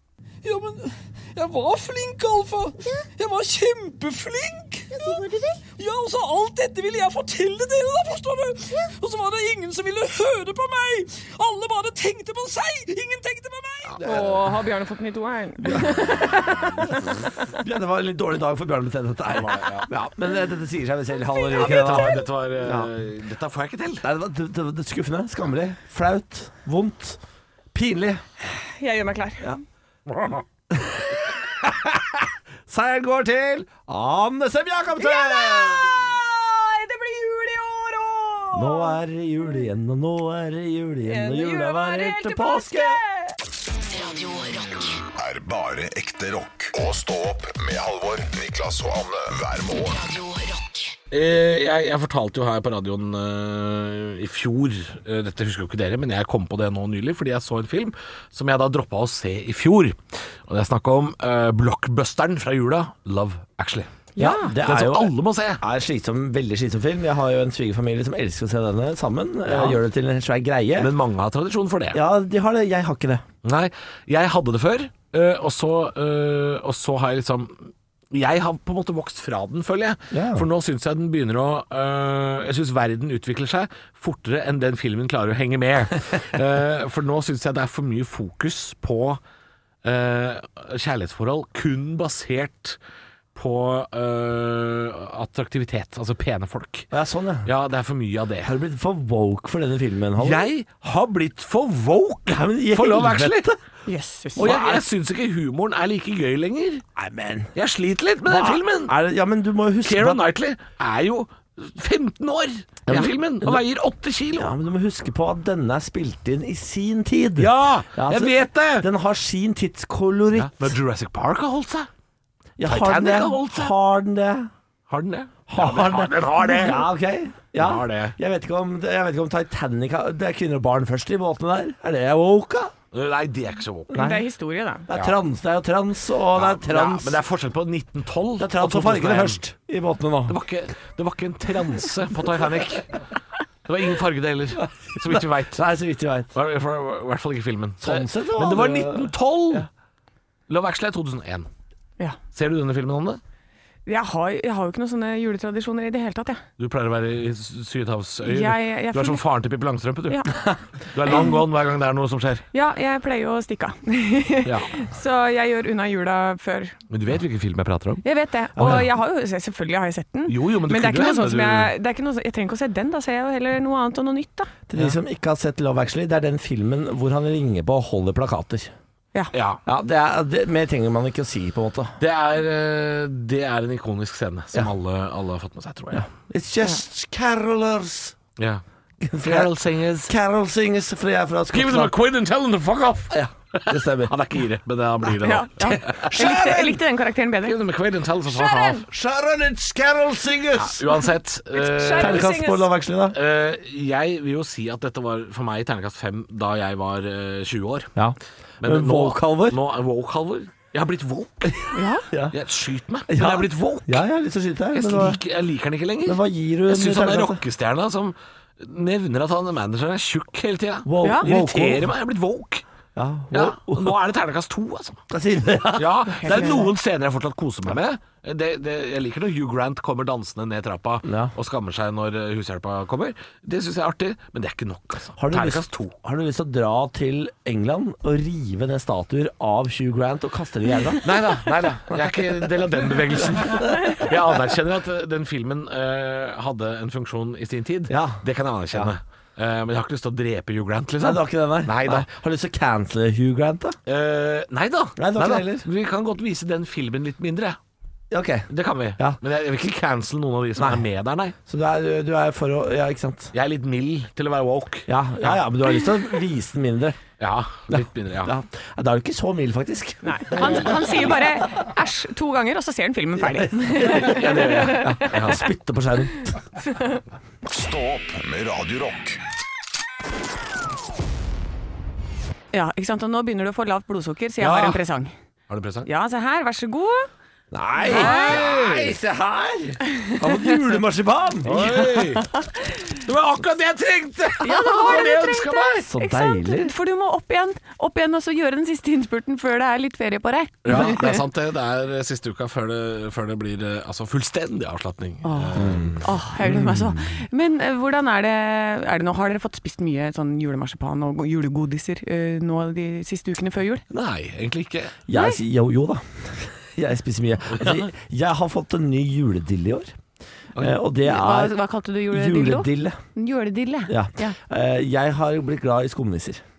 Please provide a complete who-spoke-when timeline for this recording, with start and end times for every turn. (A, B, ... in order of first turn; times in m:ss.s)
0:00.4-0:14.0 A
0:05.0-0:05.5 B
0:13.8-0:14.5 C
0:14.0-0:17.4 B
0:15.6-0:16.2 D
0:17.5-0:22.9 D
0:19.3-0:19.9 C
0:21.5-0:24.0 C
0:24.0-0:27.2 D
0:27.7-0:28.2 D
0:28.5-0:29.6 B
0:30.7-0:36.1 D
0:35.0-0:39.0 B
0:38.5-0:43.0 D
0:41.0-0:43.4 B
0:43.8-0:45.0 E
0:45.2-0:50.0 F
0:49.8-0:50.9 E
0:51.1-1:03.9 C
1:04.2-1:04.6 B
1:04.2-1:10.9 D
1:04.6-1:05.6 C
1:09.4-1:09.8 C
1:10.8-1:12.0 C
1:11.9-1:13.2 D
1:13.4-1:29.2 C
1:20.1-1:20.5 D
1:29.8-1:32.8 C
1:33.3-1:36.9 C
1:36.9-1:37.5 D
1:37.4-1:38.5 C
1:38.4-1:40.5 D
1:40.2-1:43.5 C
1:42.3-1:43.6 D
1:43.9-1:44.6 B
1:44.4-1:44.8 D
1:44.4-1:46.8 C
1:47.0-1:47.5 D
1:47.5-1:48.9 C
1:48.2-1:50.2 D
1:49.8-1:54.5 C
1:52.9-1:53.6 D
1:54.4-2:00.7 D
1:57.4-1:58.9 C
2:00.3-2:01.9 C
2:02.6-2:04.5 D
2:02.6-2:03.7 C
2:04.9-2:06.9 C
2:05.5-2:12.7 D
2:07.6-2:08.2 C
2:12.9-2:14.0 C
2:13.9-2:14.2 D
2:13.9-2:14.9 B
2:14.9-2:17.2 D
2:14.9-2:15.2 C
2:16.3-2:19.4 C
2:18.4-2:20.4 D
2:20.3-2:23.0 C
2:23.6-2:25.6 C
2:24.6-2:26.3 D
2:26.3-2:29.7 C
2:27.8-2:29.7 D
2:30.5-2:31.5 C
2:32.3-2:33.2 C
2:33.8-2:36.4 B
2:36.6-2:40.4 C
2:38.2-2:39.2 B
2:40.9-2:42.4 C
2:42.5-2:46.8 B
2:44.4-2:44.7 C
2:46.9-2:48.0 C
2:48.0-2:54.5 B
2:48.6-2:48.8 D
2:50.3-2:51.7 C
2:54.7-2:58.7 D
2:59.3-2:59.6 C
2:59.6-3:02.0 D
3:02.0-3:06.1 C
3:05.9-3:08.2 D
3:09.0-3:11.9 D
3:09.2-3:10.1 C
3:11.5-3:16.7 C
3:13.1-3:14.2 D
3:15.2-3:17.6 B
3:16.0-3:16.8 D
3:17.4-3:18.8 C
3:18.3-3:18.8 B
3:18.9-3:21.0 D
3:20.6-3:22.3 C
3:21.5-3:22.7 B
3:21.9-3:23.2 D
3:23.1-3:27.9 C
3:28.0-3:29.6 D
3:28.6-3:31.7 C
3:31.7-3:32.1 B
3:32.1-3:32.4 D
3:32.3-3:34.0 C
3:33.1-3:35.2 D
3:34.7-3:42.6 C
3:36.0-3:37.4 D
3:40.8-3:41.9 D
3:41.0-3:41.3 B
3:43.0-3:44.0 D
3:43.3-3:45.0 C
3:45.1-3:46.7 D
3:45.8-3:55.9 C
3:46.1-3:46.6 B
3:51.0-3:51.3 D
3:55.2-4:01.2 D
4:01.0-4:12.1 C
4:03.4-4:04.2 D
4:07.9-4:08.9 D
4:11.0-4:13.8 D
4:13.8-4:17.6 C
4:15.0-4:15.7 D
4:18.1-4:19.2 D
4:18.5-4:21.3 C
4:20.6-4:20.8 D
4:21.4-4:23.3 D
4:23.3-4:25.4 C
4:24.9-4:27.0 D
4:27.2-4:28.3 C
4:27.7-4:31.3 D
4:30.0-4:35.1 B
4:30.4-4:31.0 C
4:33.2-4:36.4 D
4:33.8-4:35.5 C
4:36.6-4:37.0 B
4:37.4-4:39.2 F
4:42.5-4:45.1 B
4:44.4-4:44.8 C
4:45.5-4:45.9 C
4:45.8-4:47.1 B
4:47.5-4:52.0 D
4:47.8-4:48.4 B
4:47.9-4:49.0 C
4:51.4-4:55.8 C
4:54.4-5:01.2 B
4:54.5-4:56.7 D
5:00.6-5:06.0 C
5:05.2-5:13.8 B
5:05.6-5:07.2 D
5:13.9-5:15.0 C
5:15.1-5:19.9 D
5:15.1-5:15.4 B
5:17.6-5:17.9 C
5:20.5-5:20.8 C
5:20.6-5:21.6 D
5:21.0-5:24.3 B
5:22.1-5:23.0 D
5:23.9-5:26.4 D